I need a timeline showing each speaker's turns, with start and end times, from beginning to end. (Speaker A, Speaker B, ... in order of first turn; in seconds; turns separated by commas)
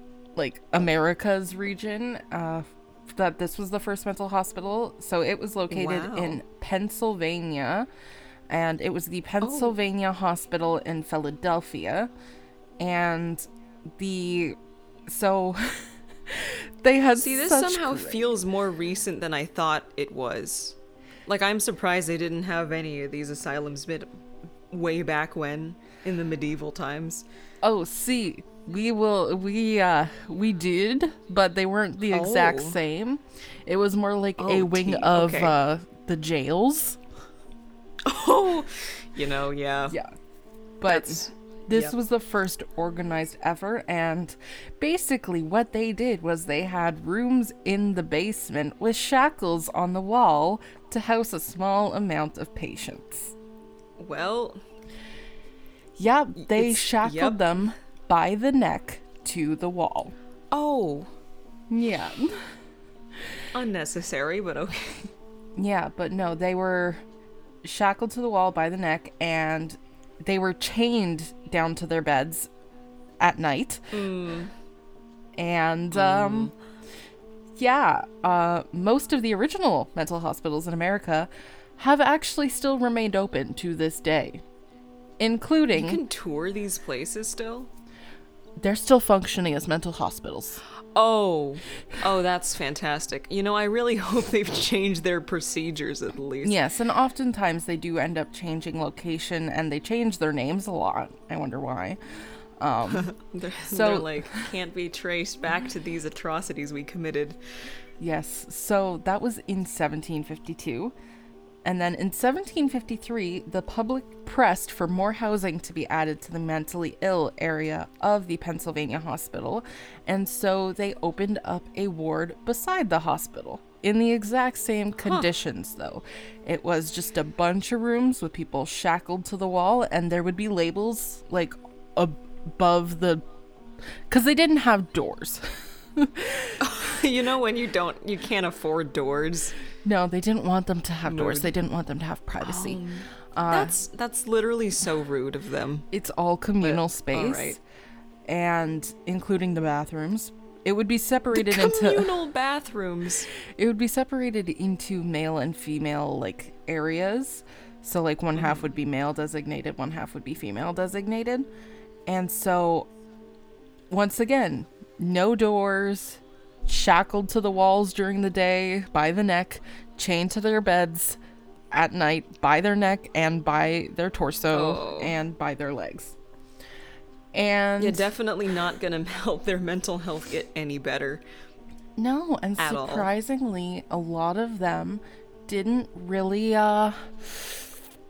Speaker A: 0.3-7.9, Speaker B: 5.7-6.4, Speaker A: 8.5-12.1, Speaker B: 9.4-9.8, Speaker A: 12.8-18.4, Speaker B: 17.2-24.1, Speaker B: 24.7-27.2, Speaker A: 27.6-37.0, Speaker B: 32.1-32.8, Speaker B: 34.4-35.6, Speaker B: 38.0-40.0, Speaker A: 40.8-53.3, Speaker B: 40.9-41.9, Speaker B: 54.0-54.6, Speaker A: 56.0-60.1, Speaker B: 56.4-57.6, Speaker B: 60.5-61.1, Speaker A: 61.7-62.4, Speaker B: 63.5-65.1, Speaker A: 65.6-67.0, Speaker A: 67.6-72.5, Speaker A: 73.2-73.9, Speaker B: 73.9-74.5, Speaker A: 75.3-76.5, Speaker B: 75.9-76.5, Speaker A: 77.5-84.4, Speaker A: 85.2-86.0, Speaker B: 85.7-87.7, Speaker A: 88.6-90.6, Speaker B: 91.0-96.6, Speaker A: 96.4-102.0, Speaker A: 102.6-103.1, Speaker B: 102.9-107.4, Speaker A: 103.7-104.5, Speaker A: 108.0-110.9, Speaker A: 111.6-133.2, Speaker B: 125.0-125.3, Speaker A: 134.1-136.6, Speaker B: 136.6-139.6, Speaker A: 139.8-142.8, Speaker B: 141.0-141.5, Speaker B: 142.4-145.9, Speaker A: 143.3-143.8, Speaker A: 145.9-147.6, Speaker B: 146.6-147.6, Speaker A: 148.3-152.2, Speaker B: 151.3-153.3, Speaker A: 153.4-161.5, Speaker B: 158.3-158.7, Speaker A: 162.1-162.9, Speaker A: 163.9-171.2, Speaker A: 171.7-176.2, Speaker B: 174.5-175.2, Speaker A: 177.3-178.1, Speaker B: 177.8-181.2, Speaker A: 182.0-187.7, Speaker B: 182.6-183.1